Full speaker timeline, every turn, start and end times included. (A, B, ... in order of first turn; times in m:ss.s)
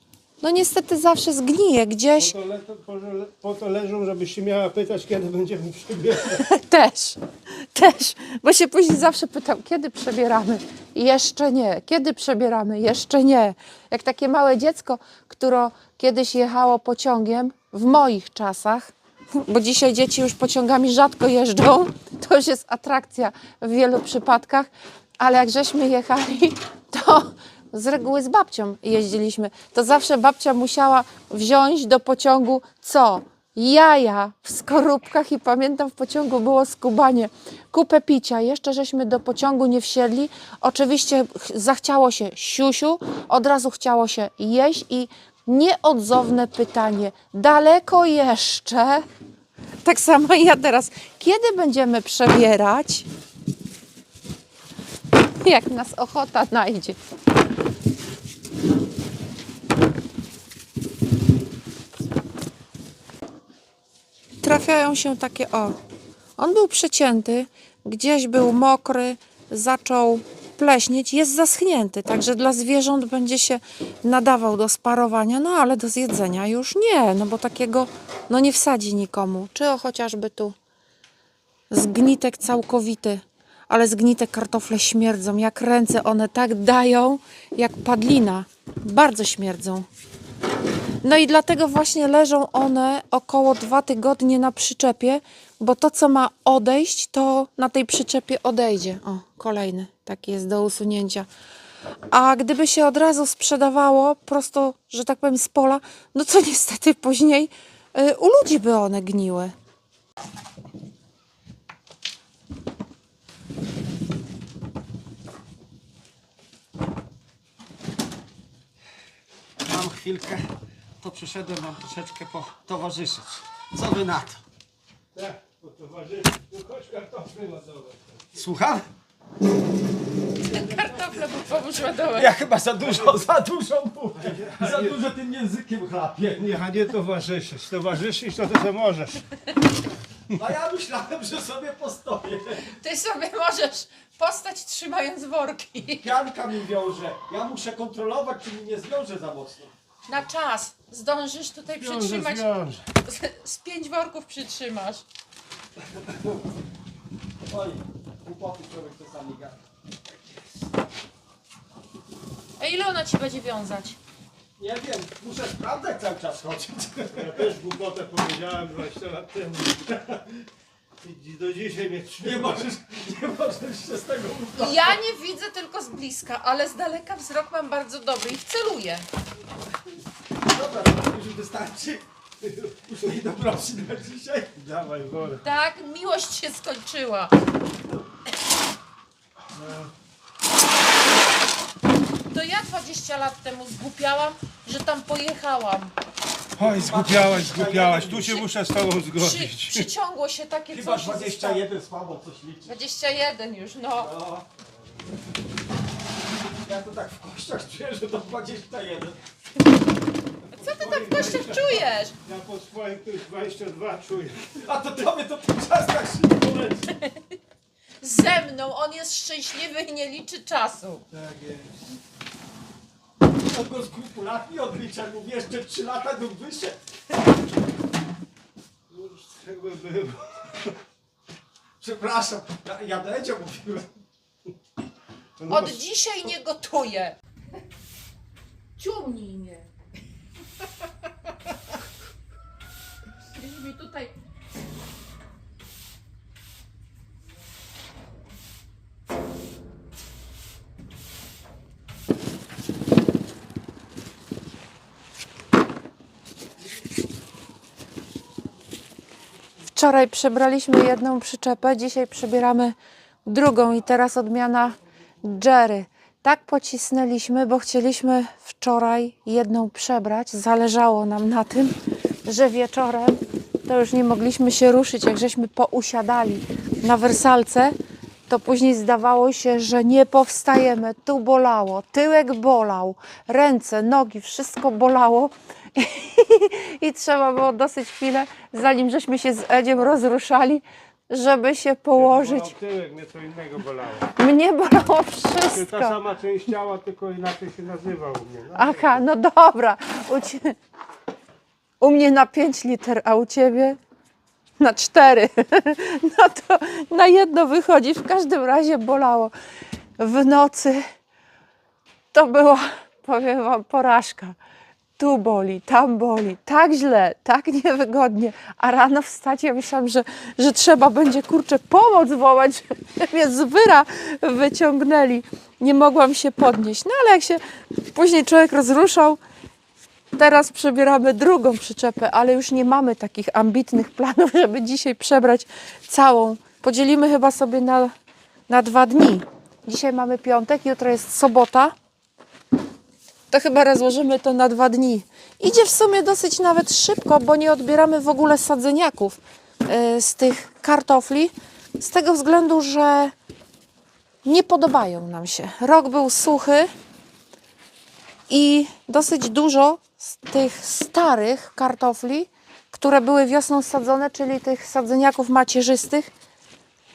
0:00.4-0:02.3 A
0:02.2-0:06.5 B
0:06.3-0:49.0 A
0:49.8-0:53.1 A
0:55.4-0:57.0 A
1:04.4-1:05.8 A
1:06.4-1:20.6 A
1:21.7-1:29.9 A
1:31.0-1:41.3 A
1:42.1-1:49.5 A
1:59.6-2:00.5 C
2:01.0-2:04.4 C
2:05.1-2:08.3 B
2:08.4-2:08.8 C
2:10.4-2:12.4 A
2:10.5-2:11.1 B
2:12.0-2:16.5 C
2:14.2-2:15.0 B
2:16.4-2:19.2 B
2:20.3-2:22.7 C
2:22.7-2:26.1 A
2:26.0-2:29.7 C
2:30.1-2:35.0 A
2:31.7-2:32.9 B
2:37.5-2:39.6 C
2:42.6-2:44.0 A
2:44.6-2:47.4 C
2:47.2-2:50.3 B
2:51.0-2:52.8 B
2:52.2-2:55.0 C
2:54.6-2:59.1 A
3:00.5-3:02.1 C
3:02.4-3:03.0 B
3:02.9-3:04.6 C
3:04.6-3:05.4 B
3:05.4-3:07.3 A
3:09.6-3:09.9 B
3:12.3-3:15.9 A
3:16.6-3:19.9 B
3:16.6-3:18.4 C
3:19.1-3:21.6 A
3:20.7-3:22.7 C
3:22.7-3:24.1 A
3:24.0-3:24.5 C
3:26.6-3:29.2 C
3:30.5-3:32.1 A
3:30.6-3:34.6 B
3:30.8-3:31.8 C
3:34.6-3:36.9 C
3:38.0-3:41.0 A
3:41.1-3:41.7 B
3:43.4-3:46.8 C
3:48.9-3:50.8 B
3:51.8-3:53.9 C
3:55.4-3:55.8 B
3:55.5-3:57.2 A
3:58.8-3:59.7 A
4:03.4-4:04.1 A
4:19.7-4:37.8 A
4:38.3-4:52.5 A
4:52.0-4:54.1 B
4:54.2-4:56.0 A
4:55.5-4:59.0 B
4:58.6-5:00.6 A
5:01.8-5:03.8 A
5:04.6-5:09.3 A
5:10.0-5:10.9 A
5:12.1-5:14.4 A
5:15.0-5:29.2 A
5:30.2-5:37.9 A
5:38.5-5:41.8 A
5:43.3-5:53.1 A
5:54.2-5:56.7 A
5:58.3-6:06.1 A